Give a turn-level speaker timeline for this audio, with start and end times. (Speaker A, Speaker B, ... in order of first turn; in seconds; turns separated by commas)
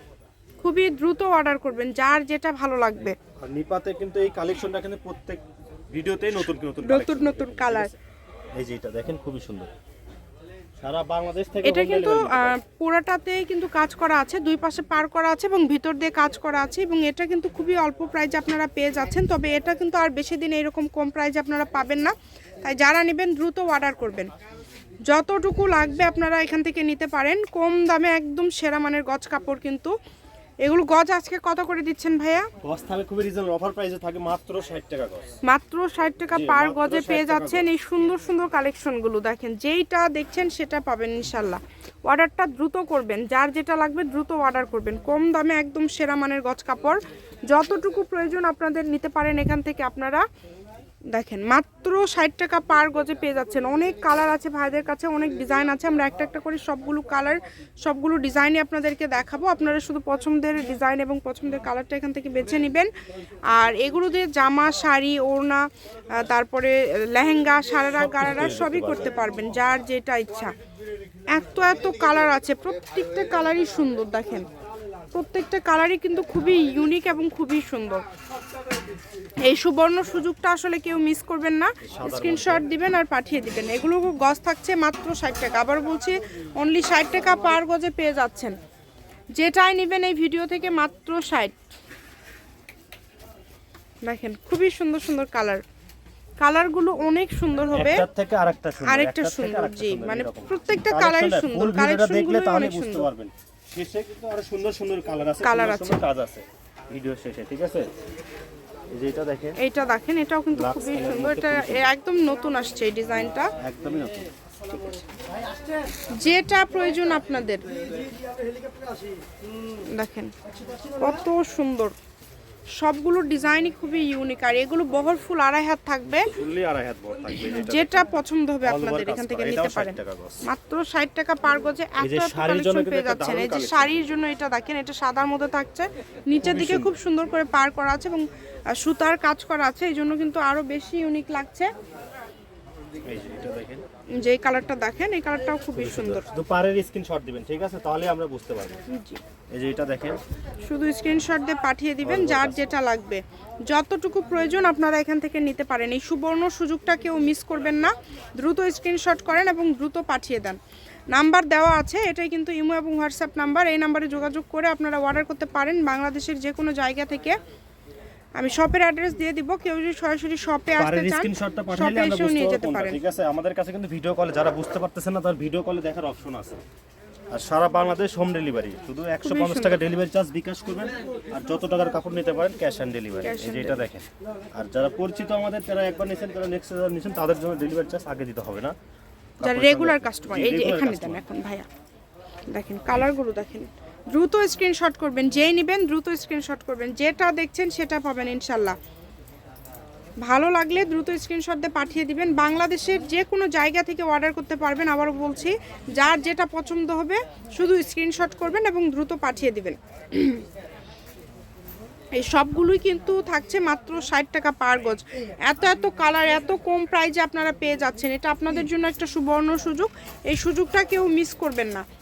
Speaker A: 0.6-3.2, Speaker B: 3.4-8.0, Speaker A: 6.8-7.9, Speaker B: 8.6-9.7, Speaker B: 10.8-12.6, Speaker A: 11.6-24.3, Speaker A: 25.1-29.9, Speaker A: 30.6-32.5, Speaker B: 32.6-35.3, Speaker A: 35.5-47.0, Speaker B: 36.3-37.7, Speaker A: 47.5-50.2, Speaker A: 51.1-62.9, Speaker A: 63.5-70.5, Speaker B: 67.9-69.1, Speaker A: 71.3-74.5, Speaker A: 75.1-78.0, Speaker A: 79.4-88.5, Speaker B: 81.8-82.7, Speaker A: 89.4-91.6, Speaker A: 94.0-95.6, Speaker A: 96.4-98.1, Speaker B: 97.7-107.9, Speaker A: 98.8-103.1, Speaker A: 105.4-106.0, Speaker B: 108.9-109.6, Speaker A: 109.6-113.5, Speaker B: 110.5-111.9, Speaker B: 113.6-114.3, Speaker A: 116.2-117.7, Speaker A: 119.9-120.3, Speaker A: 121.0-122.0, Speaker A: 122.8-126.3, Speaker B: 126.3-128.1, Speaker A: 127.5-141.7, Speaker B: 128.7-130.5, Speaker B: 132.0-134.1, Speaker B: 136.4-137.0, Speaker B: 143.1-143.8, Speaker A: 144.2-146.2, Speaker B: 145.7-148.8, Speaker A: 148.9-149.2, Speaker B: 149.5-150.2, Speaker A: 150.7-160.6, Speaker B: 152.0-152.7, Speaker A: 161.1-167.3, Speaker A: 168.4-173.0, Speaker B: 170.8-176.6, Speaker B: 177.3-188.8, Speaker A: 179.2-179.8, Speaker A: 183.2-183.8, Speaker B: 189.4-191.2, Speaker A: 189.4-191.7, Speaker A: 192.5-198.8, Speaker A: 200.2-210.4, Speaker A: 212.2-221.8